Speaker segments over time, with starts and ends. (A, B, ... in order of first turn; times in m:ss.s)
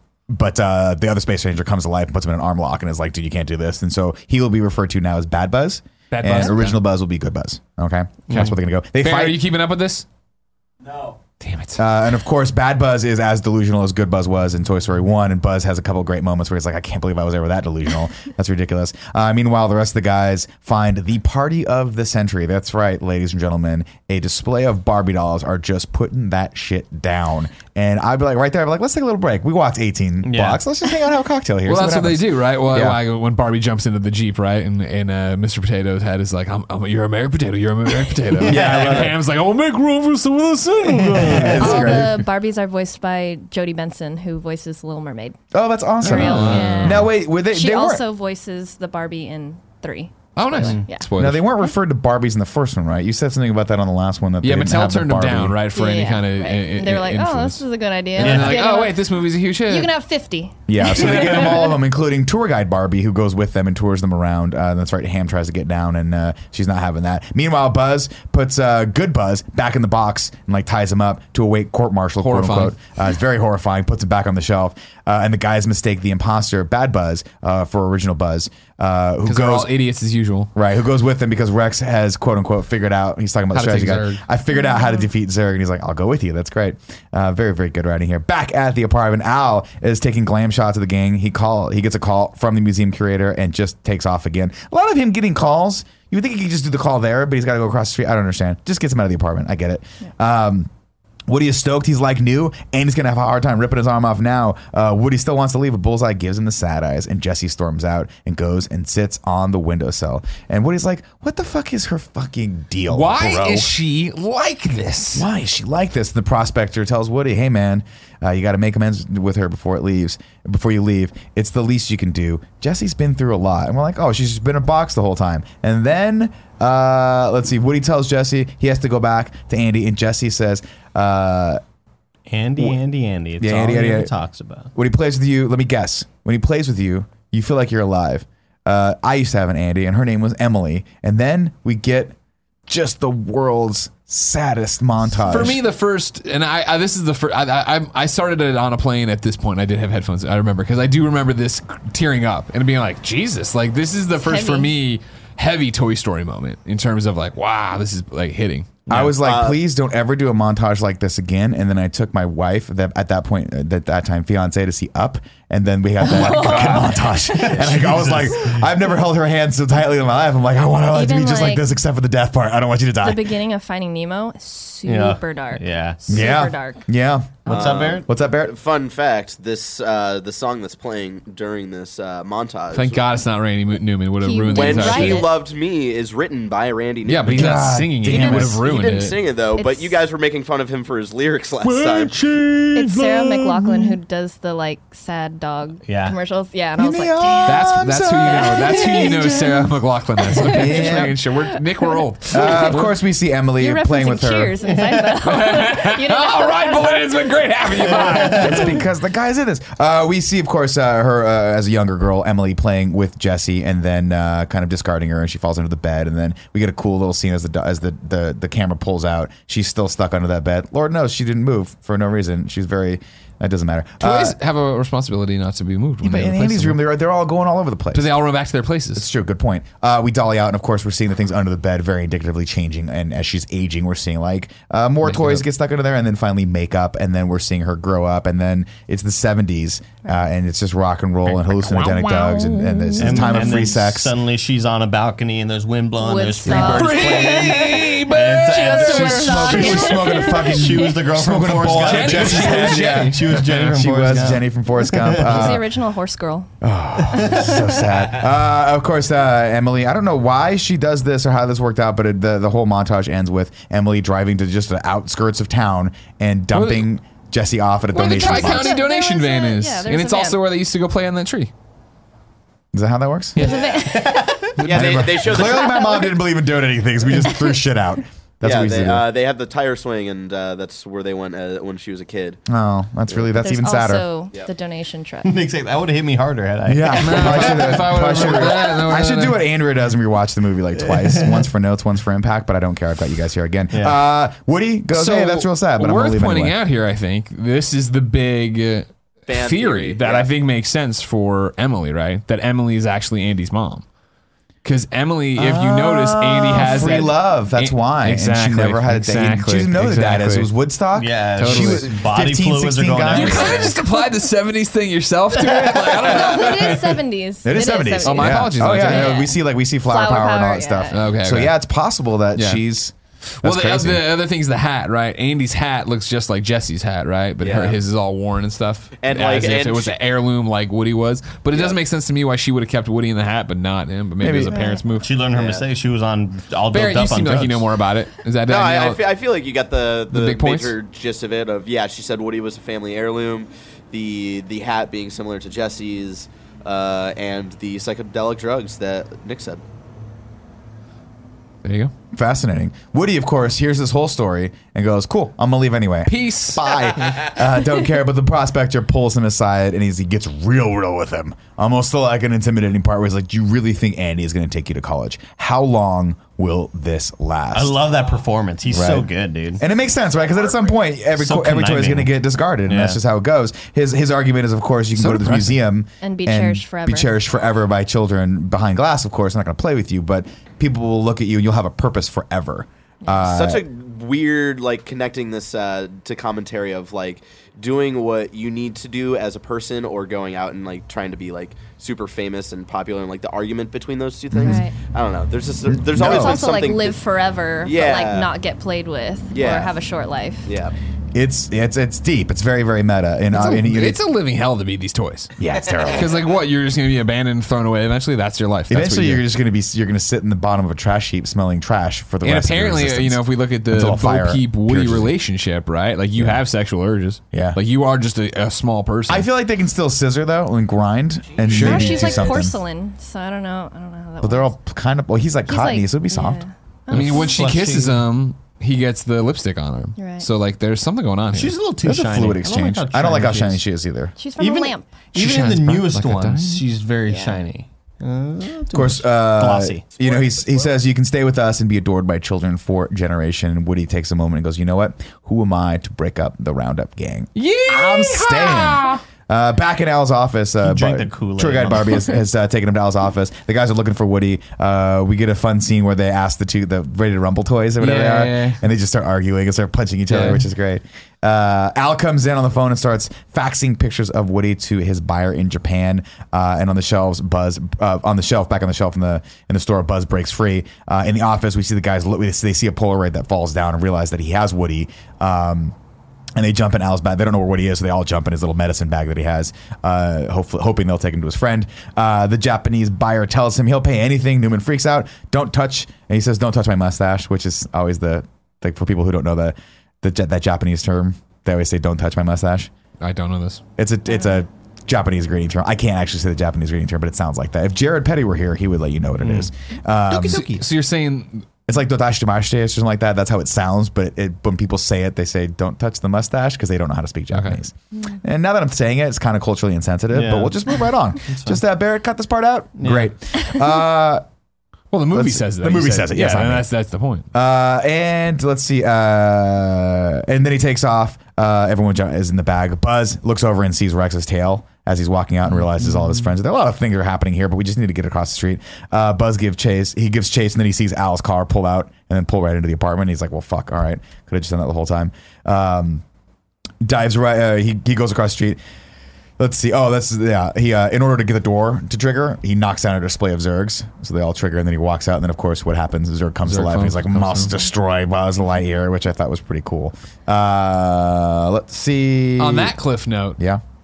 0:00.3-0:09.4 A
0:06.1-0:06.8 B
0:08.3-0:10.0 B
0:11.4-0:11.8 B
0:11.8-0:33.0 A
0:30.2-0:30.6 C
0:31.6-0:42.1 B
0:38.4-0:39.1 C
0:38.4-0:39.2 A
0:40.9-0:42.0 C
0:41.2-0:42.1 A
0:41.6-0:45.4 D
0:45.5-0:48.0 A
0:46.0-0:51.1 D
0:46.0-0:47.1 B
0:50.4-0:51.4 B
0:50.6-0:50.8 C
0:51.2-0:55.6 A
0:54.4-0:57.6 B
0:55.7-0:59.1 D
0:58.2-0:59.9 B
0:58.2-0:58.6 C
0:59.6-1:01.7 D
1:00.7-1:19.7 A
1:00.9-1:01.7 B
1:12.2-1:12.8 B
1:19.2-1:20.5 B
1:20.5-1:40.7 A
1:23.5-1:24.2 B
1:24.5-1:25.1 D
1:41.3-1:53.7 A
1:52.9-1:55.3 B
1:55.1-2:11.6 A
2:12.3-2:14.7 C
2:13.4-2:14.1 A
2:14.7-2:22.1 A
2:22.7-2:25.6 A
2:25.2-2:38.9 B
2:34.2-2:34.7 D
2:38.9-2:53.3 A
2:39.1-2:39.6 E
2:46.0-2:47.7 D
2:46.2-2:48.6 C
2:50.9-2:51.7 D
2:53.0-2:56.8 D
2:54.8-2:56.2 C
2:56.1-2:58.5 A
2:57.4-2:58.0 C
2:57.5-3:03.0 E
3:02.7-3:05.3 B
3:04.2-3:05.3 D
3:04.5-3:12.2 E
3:07.0-3:09.2 B
3:07.2-3:08.6 A
3:09.6-3:10.0 D
3:11.7-3:12.4 B
3:12.2-3:13.9 A
3:12.7-3:19.7 D
3:15.8-3:16.2 C
3:16.8-3:19.3 A
3:17.4-3:22.9 B
3:20.2-3:22.8 D
3:20.4-3:21.2 A
3:22.3-3:24.6 A
3:23.6-3:27.3 D
3:24.6-3:25.1 C
3:25.2-3:28.8 B
3:27.9-3:28.3 D
3:28.1-3:28.6 C
3:28.2-3:44.4 A
3:44.0-3:46.8 B
3:46.0-3:48.1 A
3:47.9-3:49.1 B
3:48.9-4:04.1 A
3:55.0-3:55.4 B
4:01.4-4:03.6 B
4:03.0-4:15.6 C
4:06.0-4:11.0 D
4:06.4-4:10.0 B
4:08.8-4:15.7 A
4:11.7-4:13.6 B
4:15.2-4:16.5 D
4:16.6-4:28.8 A
4:17.0-4:18.0 C
4:26.5-4:26.9 B
4:27.9-4:31.5 B
4:27.9-4:30.4 D
4:32.7-4:33.4 A
4:33.4-4:34.6 D
4:33.4-4:33.7 B
4:33.7-4:34.6 C
4:34.6-4:35.4 B
4:34.6-4:35.9 E
4:34.7-4:39.0 A
4:35.4-4:36.2 D
4:38.4-4:42.4 E
4:42.5-4:44.0 A
4:43.3-4:45.4 D
4:45.2-4:48.5 C
4:46.6-4:56.6 A
4:47.0-4:49.4 B
4:50.9-4:51.4 C
4:53.7-4:54.0 C
4:54.9-5:03.8 B
4:59.3-5:00.3 E
5:04.6-5:10.5 B
5:05.4-5:13.7 A
5:10.9-5:13.8 C
5:11.4-5:11.9 B
5:13.1-5:17.0 B
5:15.7-5:16.5 A
5:15.8-5:21.0 D
5:17.4-5:24.0 A
5:18.0-5:19.3 B
5:20.9-5:21.5 B
5:22.3-5:22.6 B
5:23.4-5:35.1 B
5:27.4-5:27.8 E
5:29.0-5:29.9 E
5:34.2-5:34.8 A
5:34.5-5:34.8 D
5:35.0-5:37.7 C
5:35.3-5:35.6 E
5:36.7-5:39.0 B
5:38.5-5:49.6 E
5:40.1-5:40.8 B
5:51.6-5:51.9 B
5:52.1-6:07.8 A
5:56.1-5:56.7 B
5:56.7-5:57.2 E
6:07.5-6:09.6 C
6:08.7-6:23.6 A
6:11.1-6:12.1 C
6:12.7-6:13.0 C
6:15.0-6:15.6 B
6:16.0-6:17.1 D
6:23.2-6:37.0 E
6:34.3-6:34.6 A
6:34.4-6:34.8 D
6:35.7-6:36.4 A
6:36.0-6:40.5 D
6:37.6-6:38.3 E
6:39.3-6:39.7 E
6:40.4-6:40.7 E
6:41.1-6:44.0 A
6:43.3-6:45.3 B
6:45.4-6:46.2 A
6:45.9-6:49.2 B
6:48.7-6:55.1 A
6:52.2-6:59.3 B
6:56.1-6:56.4 A
6:57.3-6:57.6 A
6:59.1-7:02.6 A
7:01.4-7:02.3 B
7:01.5-7:04.5 D
7:04.2-7:06.4 A
7:05.4-7:07.4 D
7:06.9-7:11.5 B
7:06.9-7:08.0 C
7:10.0-7:10.3 D
7:11.3-7:13.6 C
7:11.8-7:14.1 A
7:14.2-7:14.9 D
7:14.4-7:19.9 C
7:15.1-7:16.6 B
7:17.1-7:17.4 D
7:18.7-7:55.7 A
7:27.4-7:29.0 B
7:30.6-7:32.1 C
7:37.8-7:38.6 B
7:40.1-7:40.4 B
7:56.4-8:12.7 A
8:13.0-8:13.6 B
8:13.8-8:20.4 A
8:19.2-8:19.5 C
8:20.1-8:20.6 C
8:20.1-8:21.5 B
8:21.7-8:34.2 A
8:27.3-8:27.6 B
8:30.1-8:30.6 C
8:31.3-8:31.6 C
8:32.8-8:33.1 C
8:34.9-8:37.3 B
8:35.1-8:36.7 A
8:37.3-8:56.0 A
8:56.8-8:58.6 A
8:59.4-9:12.8 A
9:06.4-9:07.6 B
9:12.4-9:13.4 B